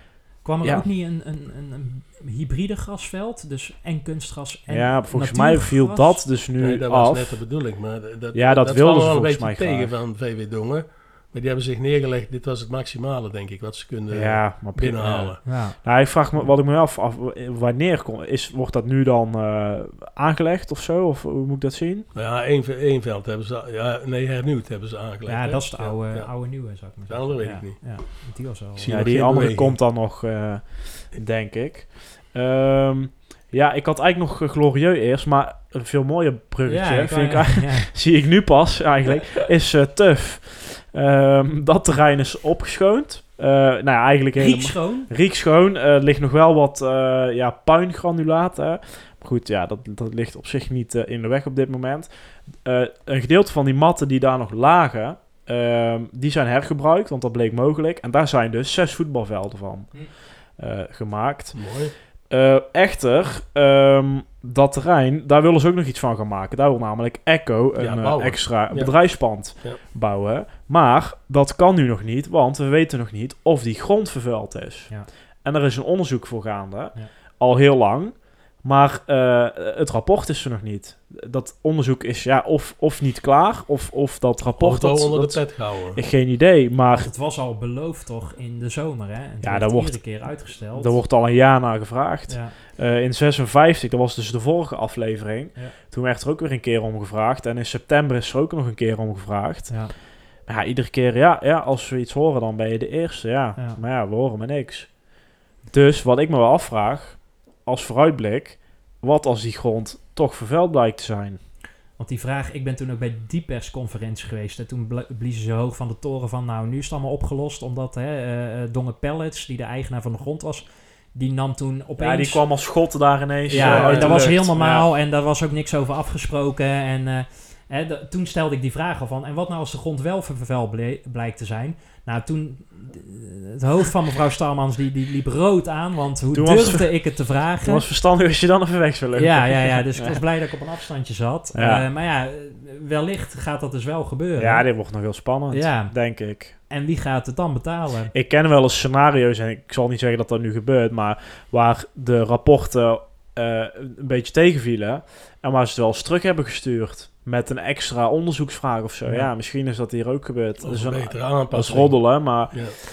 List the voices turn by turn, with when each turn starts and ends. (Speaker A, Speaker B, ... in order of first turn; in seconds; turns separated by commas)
Speaker A: 0.4-6.2, Speaker B: 4.7-7.4, Speaker C: 6.6-15.4, Speaker B: 8.3-9.9, Speaker B: 14.1-22.1, Speaker A: 15.4-15.8, Speaker C: 22.1-28.0, Speaker A: 25.3-29.0, Speaker C: 28.8-29.8, Speaker B: 28.9-60.0, Speaker A: 36.7-37.9, Speaker A: 44.4-45.1, Speaker B: 60.6-61.6, Speaker C: 61.5-61.9, Speaker B: 62.3-74.9, Speaker C: 67.8-69.8, Speaker B: 75.4-87.1, Speaker C: 84.6-86.0, Speaker A: 86.9-91.0, Speaker B: 89.4-99.8, Speaker A: 92.3-92.6, Speaker A: 99.7-99.9, Speaker B: 100.5-105.0, Speaker A: 103.6-103.8, Speaker B: 105.7-111.4, Speaker A: 112.0-122.4, Speaker B: 122.0-124.9, Speaker A: 123.5-137.8, Speaker C: 123.5-124.3, Speaker B: 136.3-137.0, Speaker B: 137.6-140.2, Speaker A: 139.2-144.7, Speaker B: 141.6-141.9, Speaker B: 144.4-146.6, Speaker A: 145.5-145.9, Speaker A: 146.7-148.1, Speaker B: 148.1-162.7, Speaker C: 160.6-162.8